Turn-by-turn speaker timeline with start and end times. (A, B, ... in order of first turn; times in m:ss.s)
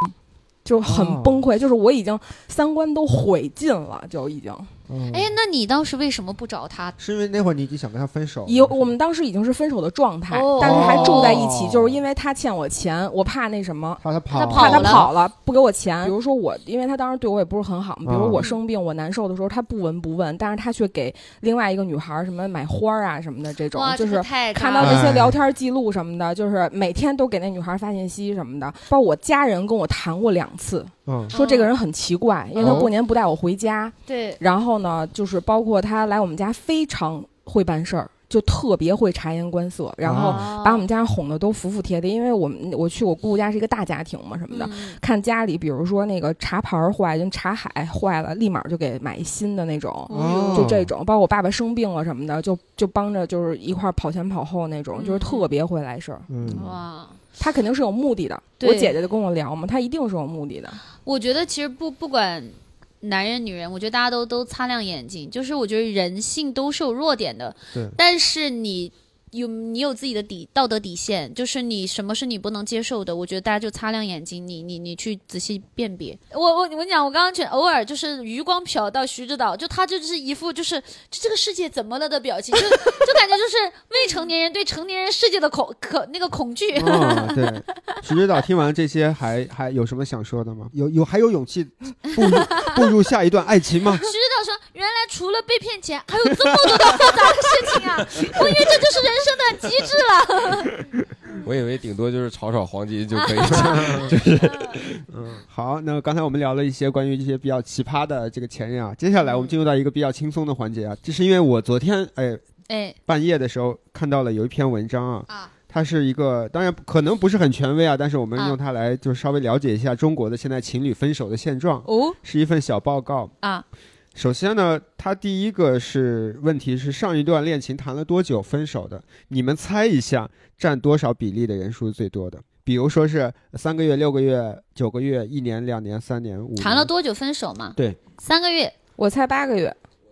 0:00.6-0:04.7 A
0:00.8-0:01.4 B
0:04.9-0:05.3 B
0:05.1-0:07.0 C
0:07.0-0:08.9 B
0:08.4-0:56.3 A
0:10.3-0:11.5 C
0:10.6-0:12.0 B
0:14.0-0:15.2 B
0:14.3-0:15.1 C
0:18.0-0:18.4 B
0:23.7-0:25.1 C
0:24.8-0:25.4 B
0:31.1-0:31.3 B
0:31.3-0:31.7 C
0:32.6-0:32.9 C
0:32.6-0:32.9 B
0:34.0-0:34.4 C
0:40.0-0:40.4 B
0:40.1-0:40.8 C
0:44.5-0:45.0 C
0:50.1-0:50.7 C
0:50.1-0:50.9 B
0:55.0-0:55.5 C
0:56.3-0:56.7 B
0:56.5-0:57.2 C
0:57.4-1:00.8 A
0:58.6-0:58.9 C
1:01.0-1:28.0 C
1:26.7-1:34.1 B
1:32.1-1:32.8 C
1:34.0-1:40.7 C
1:41.4-1:45.0 D
1:43.1-1:44.8 C
1:43.5-1:44.1 B
1:45.1-1:52.4 B
1:49.2-1:49.5 C
1:52.7-1:53.0 C
1:53.1-2:03.3 B
2:01.8-2:02.2 C
2:04.1-2:16.9 B
2:16.6-2:18.7 C
2:19.0-2:19.8 A